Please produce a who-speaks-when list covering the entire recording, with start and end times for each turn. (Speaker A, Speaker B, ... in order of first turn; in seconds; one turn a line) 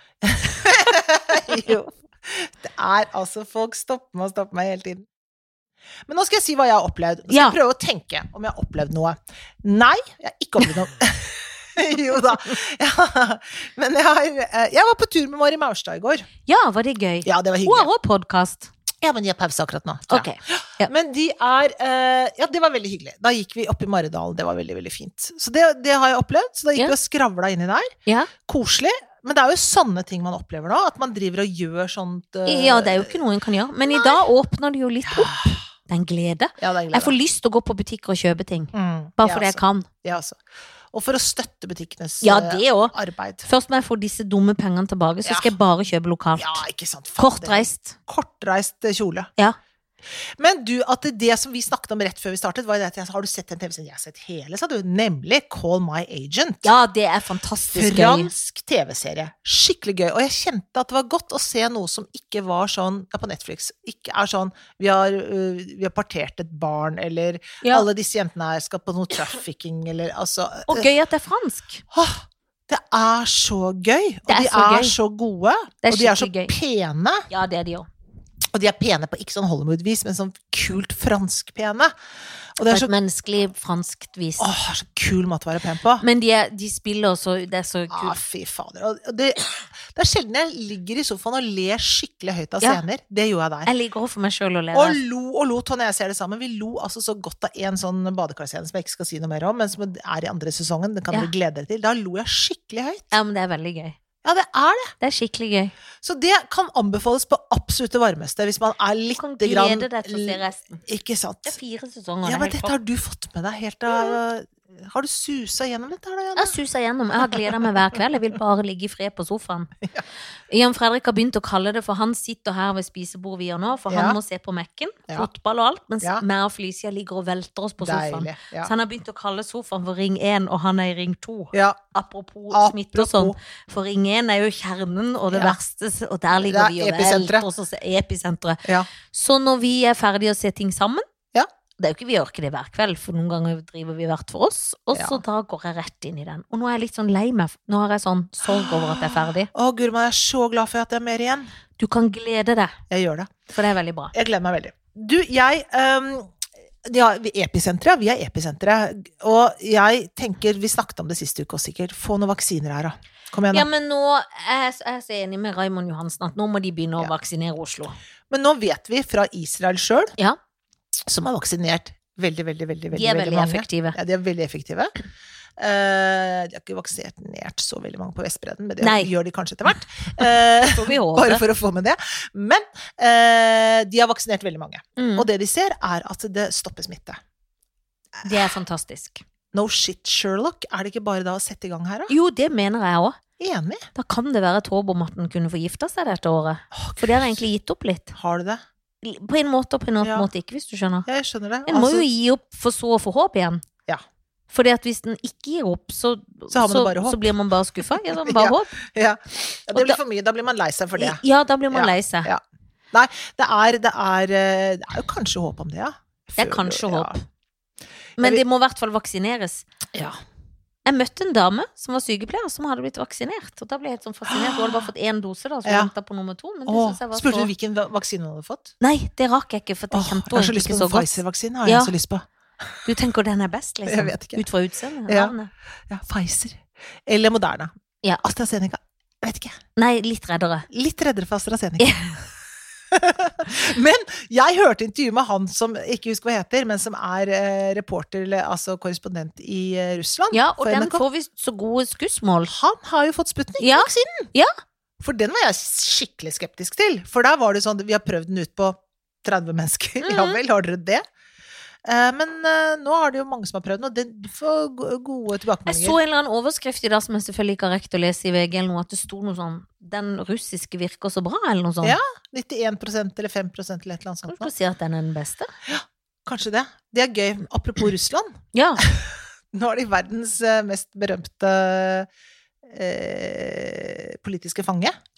Speaker A: 0.2-5.1
Speaker A: 6.1-16.3
Speaker B: 7.3-7.6
Speaker B: 16.5-18.7
Speaker A: 17.2-17.9
Speaker A: 19.0-27.9
Speaker B: 20.1-20.9
Speaker A: 28.4-33.2
Speaker B: 32.5-39.9
Speaker A: 33.9-34.2
Speaker A: 35.1-35.6
Speaker A: 36.6-37.2
Speaker A: 38.7-40.4
Speaker A: 40.9-43.5
Speaker B: 42.2-46.6
Speaker A: 45.2-45.5
Speaker A: 46.4-49.3
Speaker B: 47.2-48.0
Speaker A: 50.4-56.7
Speaker B: 56.6-58.3
Speaker A: 57.7-70.9
Speaker B: 67.6-67.9
Speaker B: 70.7-71.8
Speaker A: 71.9-77.3
Speaker B: 74.3-75.0
Speaker B: 75.8-76.5
Speaker B: 77.3-77.9
Speaker A: 78.5-81.9
Speaker A: 82.6-82.9
Speaker B: 82.6-84.5
Speaker A: 84.4-86.0
Speaker B: 86.0-88.2
Speaker A: 87.9-93.7
Speaker B: 93.7-95.0
Speaker A: 94.7-103.1
Speaker B: 103.1-104.0
Speaker A: 104.2-104.9
Speaker B: 105.0-105.7
Speaker A: 106.0-111.6
Speaker B: 109.2-110.8
Speaker B: 111.5-112.7
Speaker A: 112.2-116.6
Speaker B: 116.4-119.7
Speaker A: 117.3-117.7
Speaker B: 120.5-141.1
Speaker A: 123.9-124.2
Speaker A: 127.8-128.7
Speaker A: 131.5-131.8
Speaker A: 132.5-133.4
Speaker A: 135.3-135.6
Speaker A: 136.4-137.5
Speaker A: 138.6-138.9
Speaker B: 141.8-149.5
Speaker A: 144.9-145.2
Speaker A: 148.5-151.5
Speaker B: 151.8-152.8
Speaker A: 152.9-153.3
Speaker B: 153.5-154.1
Speaker A: 154.1-156.3
Speaker A: 156.8-163.7
Speaker B: 163.5-168.0
Speaker A: 168.3-170.1
Speaker A: 171.1-174.9
Speaker B: 172.9-174.0
Speaker A: 175.6-187.2
Speaker B: 178.8-179.1
Speaker B: 180.6-181.4
Speaker B: 185.0-185.3
Speaker B: 188.2-189.2
Speaker A: 189.5-192.1
Speaker B: 192.1-193.2
Speaker A: 193.4-193.9
Speaker B: 193.9-198.2
Speaker A: 196.7-197.4
Speaker A: 198.2-198.6
Speaker B: 199.0-201.1
Speaker A: 200.0-200.3
Speaker A: 201.1-202.1
Speaker B: 201.7-203.6
Speaker B: 204.5-208.7
Speaker A: 206.5-212.4
Speaker B: 209.7-210.0
Speaker B: 211.0-212.3
Speaker A: 212.9-217.2
Speaker B: 216.4-217.2
Speaker B: 218.2-219.7
Speaker B: 220.9-227.5
Speaker A: 224.3-224.9
Speaker A: 225.7-225.9
Speaker A: 226.7-228.7
Speaker B: 228.8-231.9
Speaker A: 229.9-232.8
Speaker B: 232.8-235.5
Speaker A: 233.9-234.4
Speaker A: 235.1-235.3
Speaker A: 235.9-237.7
Speaker A: 238.2-239.6
Speaker B: 239.8-240.7
Speaker A: 240.7-241.9
Speaker B: 241.8-242.2
Speaker A: 242.9-251.0
Speaker B: 250.3-252.5
Speaker A: 252.5-254.3
Speaker B: 253.6-254.5
Speaker A: 255.0-261.0
Speaker B: 260.0-260.4
Speaker A: 261.9-266.0
Speaker B: 265.7-272.0
Speaker A: 271.8-274.5
Speaker B: 274.3-275.5
Speaker A: 275.7-282.1
Speaker B: 278.5-278.8
Speaker A: 282.7-284.9